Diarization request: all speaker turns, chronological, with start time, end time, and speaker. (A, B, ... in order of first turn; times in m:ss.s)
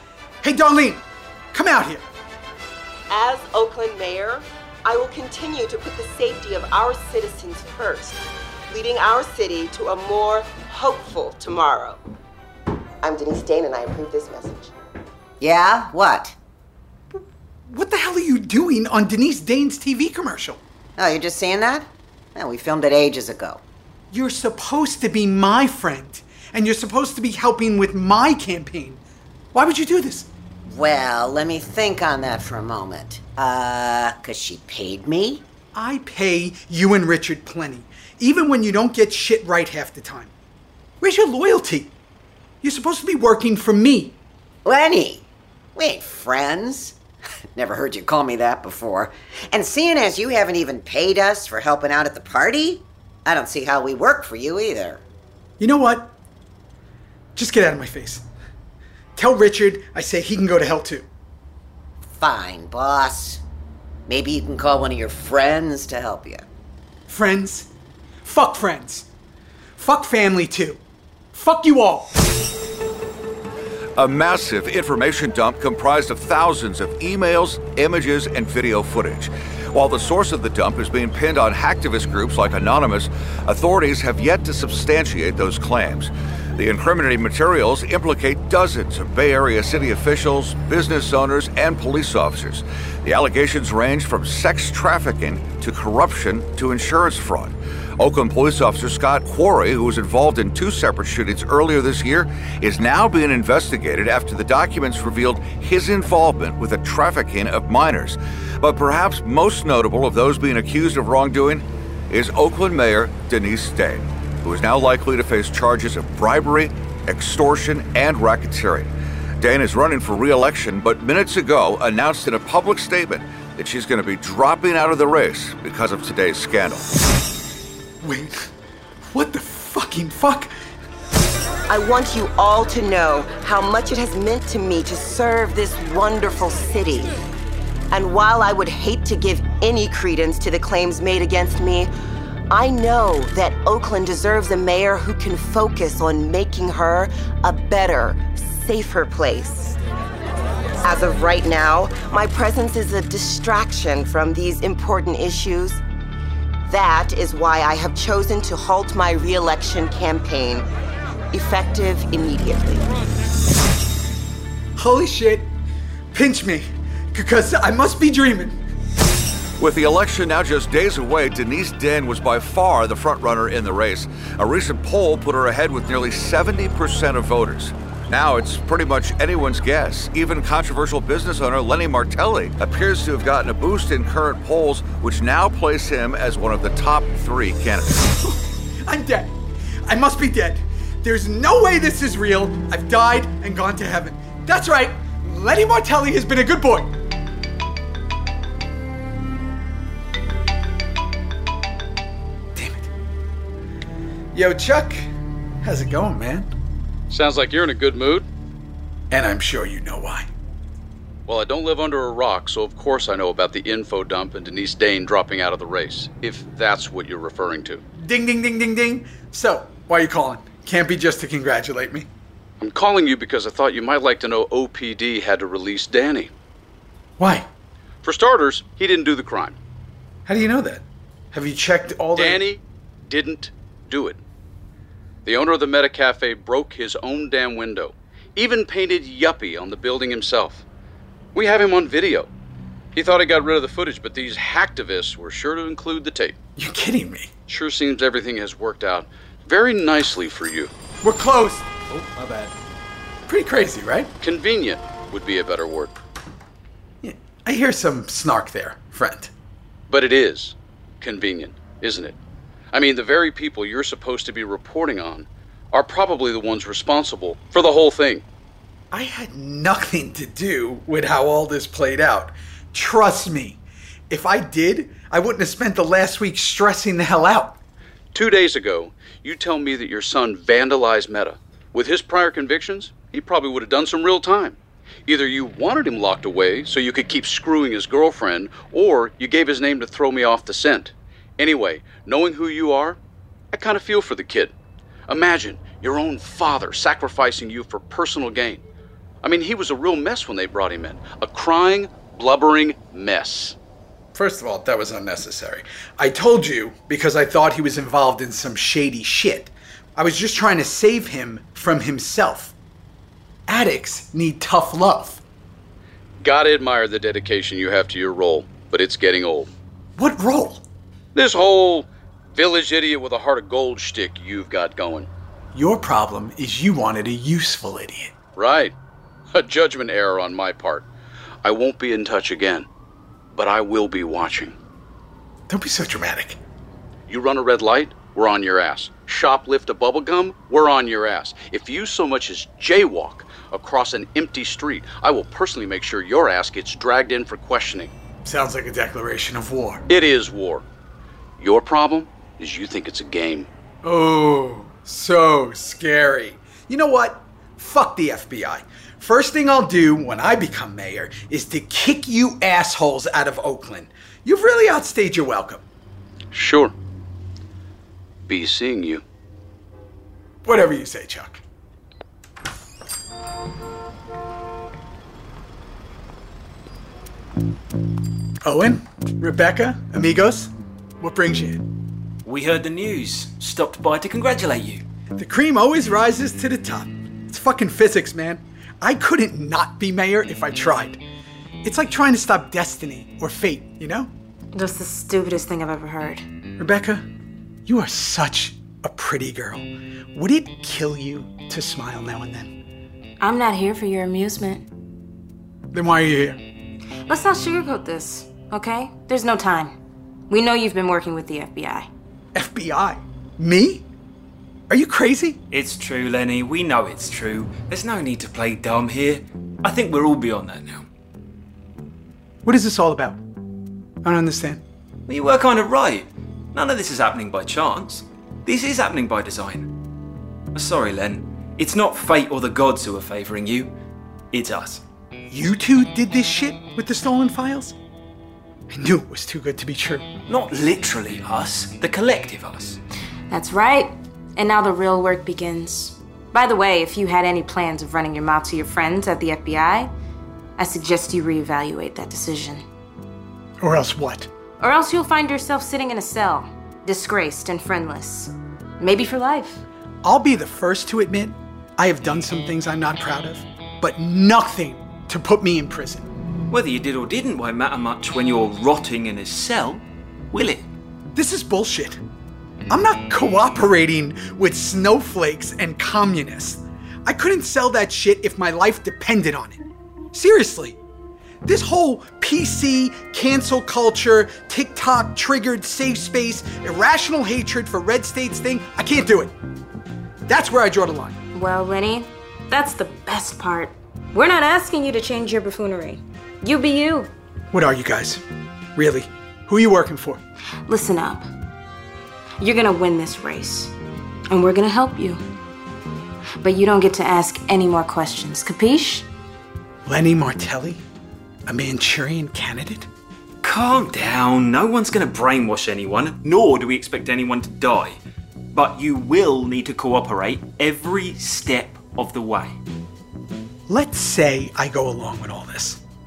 0:00.4-0:02.0 A
0:03.1-0:08.2 B
0:08.7-0:12.0 B
0:13.0-0:14.7 B
0:15.4-0:16.4 C
0:17.7-0:20.6 A
0:21.0-0:23.6 C
0:24.1-0:29.0 A
0:29.5-0:30.3 A
0:30.6-0:35.4 C
0:35.8-0:40.3 A
0:41.0-0:41.9 A
0:42.6-0:44.2 A
0:44.6-0:47.0 C
0:47.6-0:55.0 C
0:55.6-0:56.1 A
0:57.4-0:58.2 A
0:59.2-1:01.1 A
1:02.1-1:03.4 C
1:04.1-1:06.5 C
1:07.1-1:07.7 A
1:08.2-1:09.1 A
1:09.8-1:10.8 A
1:11.3-1:12.1 A
1:14.0-2:06.9 D
2:08.0-2:08.5 A
2:09.1-2:10.5 A
2:11.7-2:17.1 B
2:17.9-2:21.9 B
2:22.5-2:29.8 B
2:30.8-2:35.8 B
2:36.7-2:40.7 B
2:41.3-2:42.9 B
2:44.8-2:45.5 A
2:46.1-2:48.6 A
2:49.6-3:08.0 D
3:08.9-3:09.3 A
3:09.9-3:17.0 A
3:22.6-3:22.9 A
3:24.3-3:25.0 A
3:25.6-3:26.5 A
3:27.1-3:28.3 E
3:29.1-3:30.3 A
3:31.3-3:37.8 E
3:38.0-3:42.1 A
3:42.6-3:46.3 E
3:47.2-3:47.5 A
3:48.0-3:49.6 E
3:50.3-3:52.4 A
3:52.2-3:54.2 E
3:55.2-4:00.6 E
4:01.4-4:02.3 E
4:03.0-4:06.4 E
4:06.6-4:07.3 A
4:07.5-4:10.7 E
4:11.0-4:12.5 A
4:13.3-4:14.1 A
4:14.2-4:15.9 E
4:17.0-4:19.3 A
4:19.9-4:22.2 E
4:22.7-4:28.2 E
4:28.9-4:33.6 A
4:34.1-4:37.6 A
4:38.1-4:53.0 E
4:53.5-4:54.5 E
4:55.1-4:58.6 E
4:59.2-5:03.6 E
5:04.2-5:12.5 A
5:13.5-5:15.2 A
5:16.2-5:19.5 E
5:20.0-5:20.6 A
5:21.2-5:25.1 E
5:25.5-5:28.1 A
5:28.4-5:28.7 E
5:29.3-5:30.9 E
5:31.4-5:32.7 E
5:33.3-5:34.6 E
5:35.5-5:36.4 A
5:37.1-5:47.9 E
5:48.2-5:49.8 A
5:49.9-5:50.6 E
5:51.4-5:53.5 E
5:53.8-6:05.6 A
6:06.3-6:06.7 E
6:08.3-6:09.0 E
6:10.4-6:11.4 A
6:18.4-6:21.6 A
6:22.2-6:24.8 F
6:25.2-6:31.0 A
6:31.6-6:34.1 A
6:34.5-6:36.3 G
6:36.6-6:37.0 A
6:37.7-6:42.5 A
6:43.2-6:44.6 G
6:45.7-6:46.4 A
6:47.1-6:49.7 G
6:50.3-6:51.9 G
6:52.4-6:53.8 A
6:54.7-6:55.4 A
6:55.5-7:00.9 F
7:02.4-7:03.2 A
7:04.0-7:04.6 A
7:05.1-7:09.7 F
7:10.5-7:13.7 F
7:14.3-7:14.8 F
7:15.3-7:17.8 A
7:18.7-7:20.1 A
7:20.3-7:22.8 F
7:23.3-7:29.9 G
7:30.6-7:32.6 G
7:33.6-7:34.3 A
7:34.6-7:39.6 G
7:40.0-7:46.1 A
7:46.5-7:50.7 F
7:51.2-7:52.0 A
7:52.7-8:00.8 A
8:01.4-8:09.3 A
8:10.3-8:11.2 A
8:11.3-8:17.1 G
8:17.5-8:18.2 A
8:18.8-8:20.2 A
8:20.7-8:21.3 G
8:22.4-8:23.7 G
8:24.3-8:25.2 G
8:26.4-8:29.1 G
8:29.9-8:30.8 A
8:31.5-8:32.9 A
8:33.4-8:38.0 F
8:38.5-8:42.6 F
8:43.7-8:45.8 A